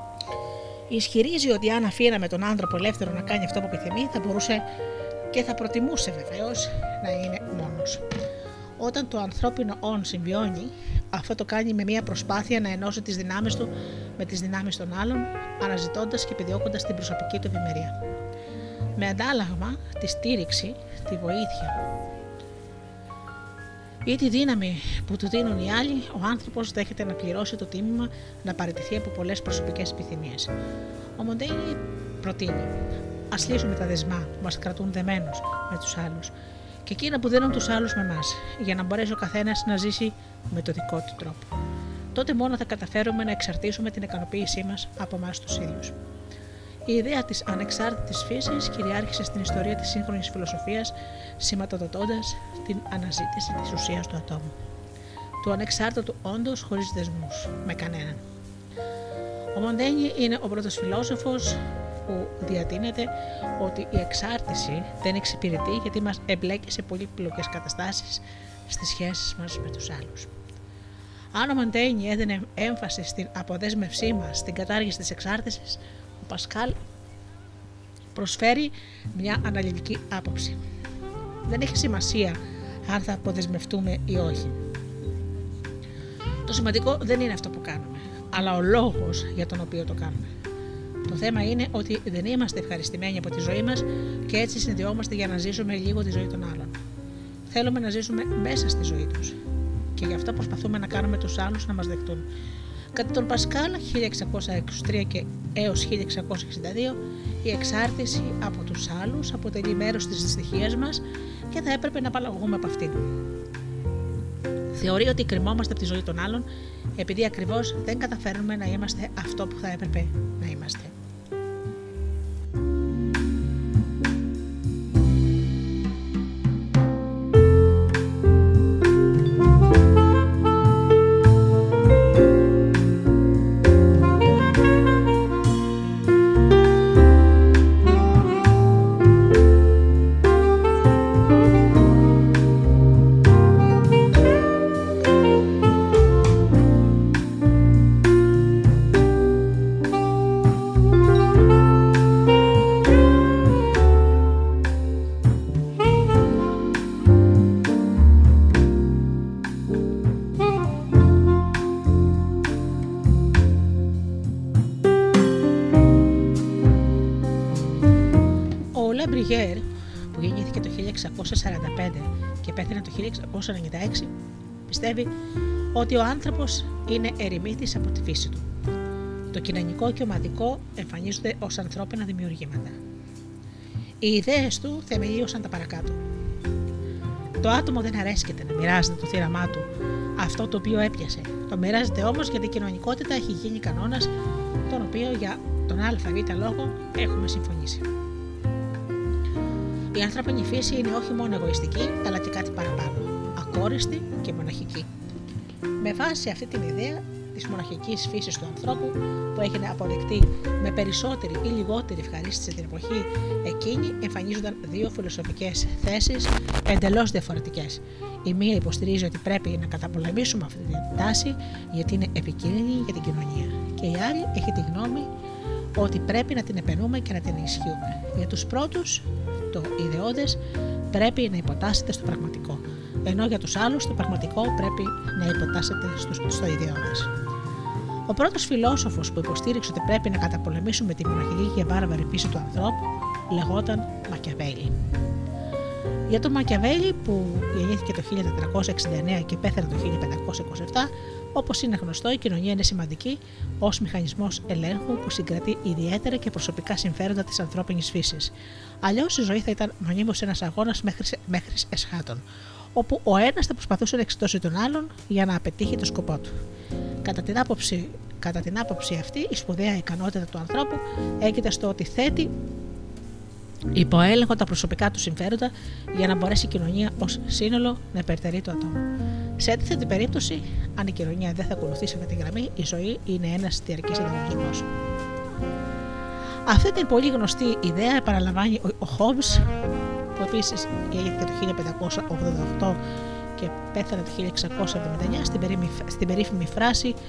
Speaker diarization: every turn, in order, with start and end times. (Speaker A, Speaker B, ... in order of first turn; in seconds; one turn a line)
Speaker A: 0.9-4.6
Speaker A: 5.3-8.0
Speaker A: 8.8-17.9
Speaker A: 19.0-21.8
Speaker A: 24.1-30.5
Speaker A: 31.2-32.7
Speaker A: 33.3-36.3
Speaker A: 36.9-41.5
Speaker A: 42.1-46.0
Speaker A: 46.9-54.5
Speaker A: 55.4-58.2
Speaker A: 59.5-70.3
Speaker A: 71.3-76.8
Speaker A: 78.2-80.6
Speaker A: 81.5-84.6
Speaker A: 86.5-90.3
Speaker A: 91.1-96.8
Speaker A: 97.5-99.4
Speaker A: 100.0-102.3
Speaker A: 102.9-113.0
Speaker A: 114.8-120.9
Speaker A: 168.7-174.1
Speaker A: 174.7-175.1
Speaker A: 175.8-178.4
Speaker A: 179.3-182.8
Speaker A: 184.0-186.0
Speaker A: 187.4-194.1
Speaker A: 194.7-197.9
Speaker A: 199.9-204.9
Speaker A: 205.8-225.1
Speaker A: 225.8-230.4
Speaker A: 230.9-237.1
Speaker A: 238.1-244.7
Speaker A: 246.1-258.3
Speaker A: 258.8-262.2
Speaker A: 262.8-266.3
Speaker A: 267.0-272.3
Speaker A: 273.8-278.8
Speaker A: 279.4-284.7
Speaker A: 286.5-289.5
Speaker A: 290.2-292.8
Speaker A: 293.4-296.9